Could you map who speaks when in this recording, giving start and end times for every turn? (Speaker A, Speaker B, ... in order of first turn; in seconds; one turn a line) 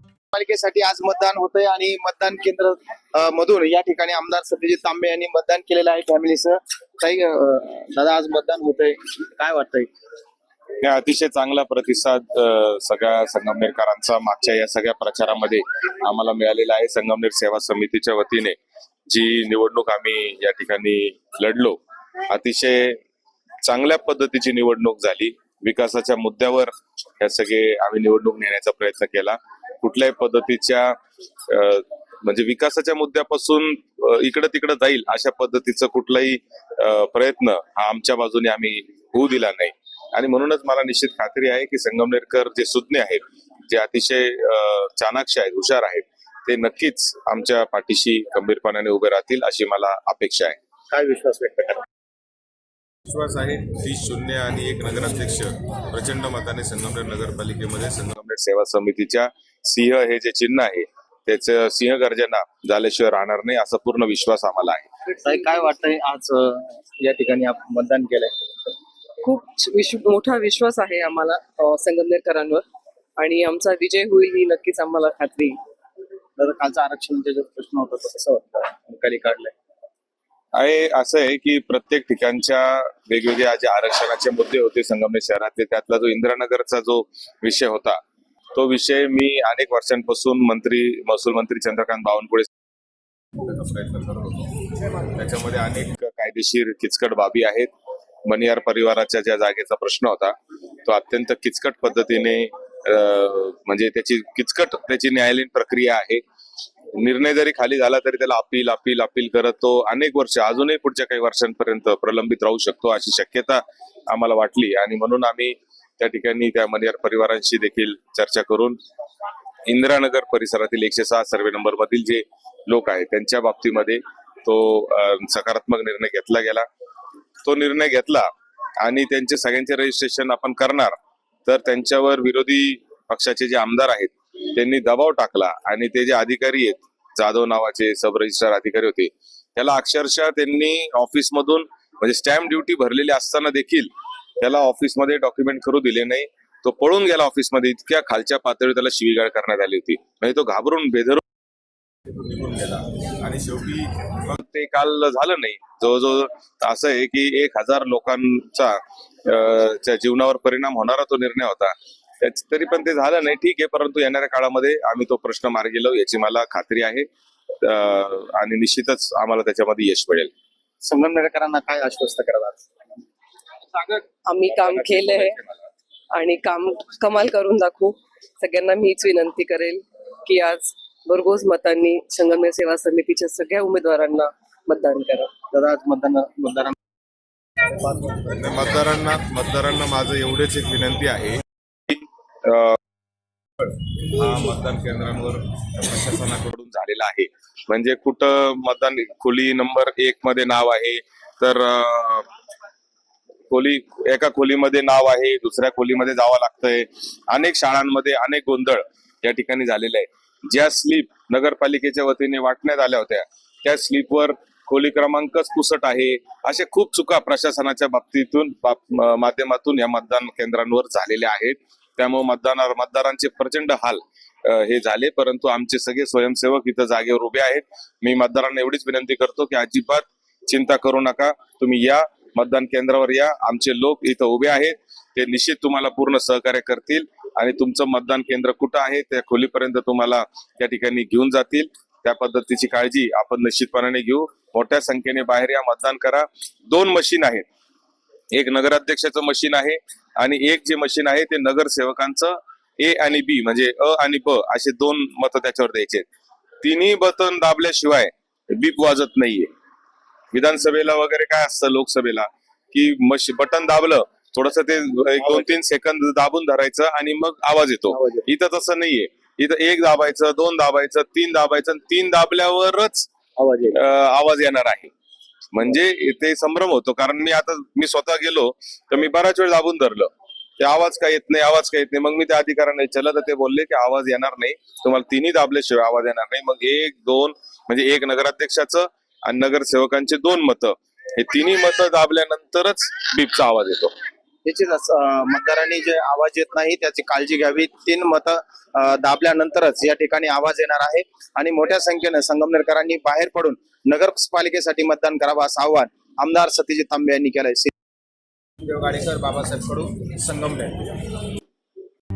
Speaker A: 0.3-9.9
Speaker B: 10.8-23.0
Speaker B: 23.6-31.0
Speaker B: 31.5-50.6
Speaker A: 50.9-51.8
Speaker B: 53.1-64.9
Speaker A: 65.2-68.7
Speaker C: 69.2-72.7
Speaker C: 73.2-75.6
Speaker A: 76.4-79.5
Speaker B: 80.5-88.0
Speaker B: 88.5-92.5
Speaker B: 93.4-97.7
Speaker B: 98.3-100.3
Speaker B: 100.9-106.2
Speaker B: 107.0-118.8
Speaker B: 119.7-126.7
Speaker B: 127.5-128.3
Speaker B: 128.8-130.9
Speaker B: 131.5-151.2
Speaker B: 152.1-167.1
Speaker B: 167.6-170.3
Speaker A: 170.8-172.7
Speaker A: 173.7-174.0
Speaker C: 174.3-175.4
Speaker B: 174.8-175.4
Speaker C: 176.1-185.3
Speaker A: 185.5-186.8
Speaker A: 187.6-188.3
Speaker B: 188.3-192.8
Speaker B: 193.6-202.3
Speaker B: 203.5-247.5
Speaker B: 248.3-256.1
Speaker B: 256.6-259.5
Speaker B: 260.3-273.1
Speaker A: 265.2-265.5
Speaker A: 267.9-268.2
Speaker A: 273.4-273.8
Speaker B: 273.7-274.9
Speaker B: 275.5-293.9
Speaker A: 294.4-307.7
Speaker A: 308.6-311.1